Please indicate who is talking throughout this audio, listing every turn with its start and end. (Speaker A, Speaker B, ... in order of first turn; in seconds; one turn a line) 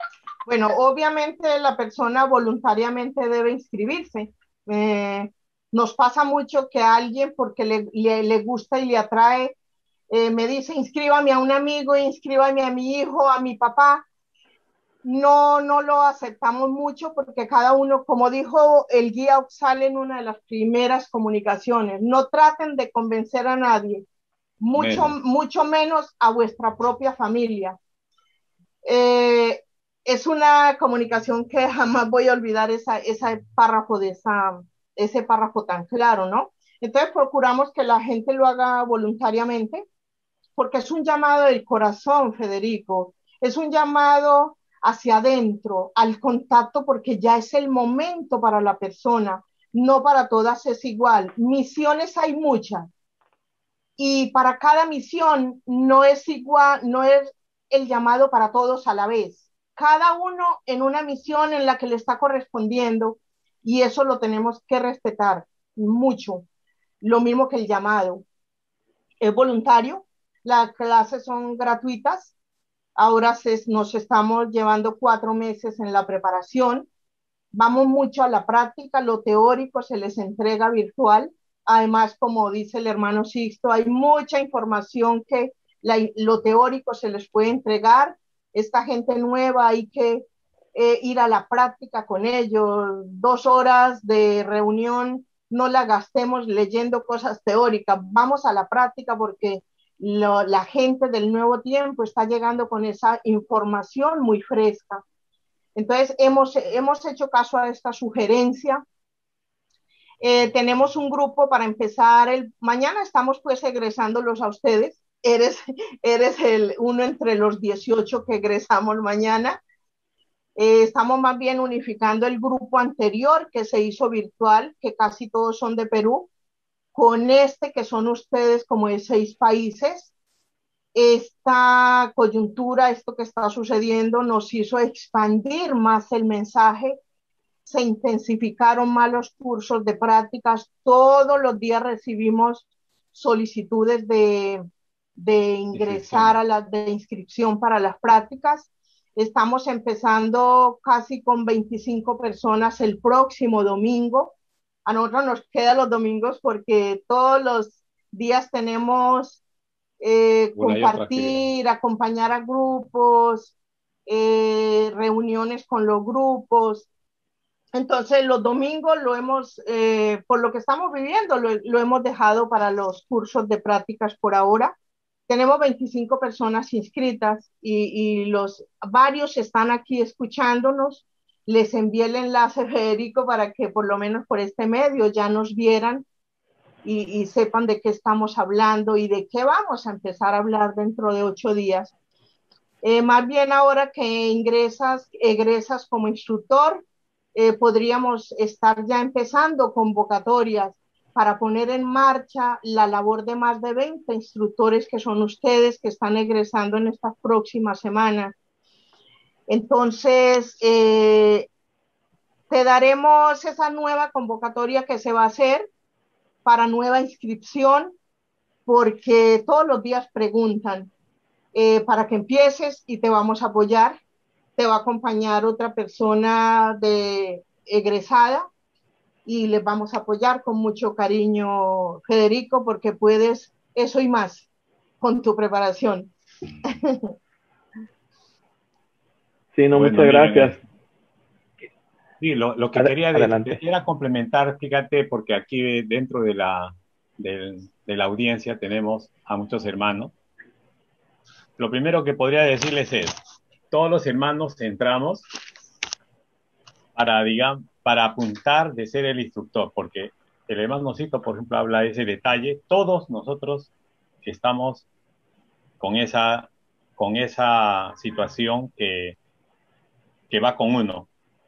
Speaker A: 0.5-9.5
Speaker A: 10.1-14.0
Speaker A: 15.0-24.0
Speaker A: 24.6-27.8
Speaker B: 24.8-25.1
Speaker A: 28.8-39.9
Speaker A: 40.6-52.9
Speaker A: 54.0-66.4
Speaker A: 67.0-68.2
Speaker A: 69.2-72.3
Speaker A: 73.0-76.9
Speaker A: 77.5-105.0
Speaker A: 105.8-108.8
Speaker A: 110.2-119.6
Speaker A: 120.5-126.3
Speaker A: 126.9-130.1
Speaker A: 130.9-137.0
Speaker A: 137.6-144.6
Speaker A: 145.2-159.4
Speaker B: 145.7-146.3
Speaker A: 160.0-163.5
Speaker B: 160.6-161.4
Speaker A: 164.1-166.9
Speaker A: 167.7-174.7
Speaker A: 175.3-186.0
Speaker A: 186.8-191.9
Speaker A: 192.8-196.8
Speaker A: 197.3-208.3
Speaker A: 209.5-211.5
Speaker A: 212.5-215.7
Speaker A: 216.4-217.9
Speaker A: 218.7-220.9
Speaker A: 221.5-224.0
Speaker A: 224.6-228.5
Speaker A: 229.2-234.5
Speaker A: 235.0-236.1
Speaker A: 236.7-237.1
Speaker C: 239.5-240.6
Speaker B: 239.7-240.6
Speaker B: 242.2-250.1
Speaker C: 242.7-243.6
Speaker B: 251.6-253.2
Speaker B: 253.7-255.2
Speaker B: 256.9-263.7
Speaker B: 264.2-264.9
Speaker B: 265.8-269.1
Speaker B: 270.3-271.1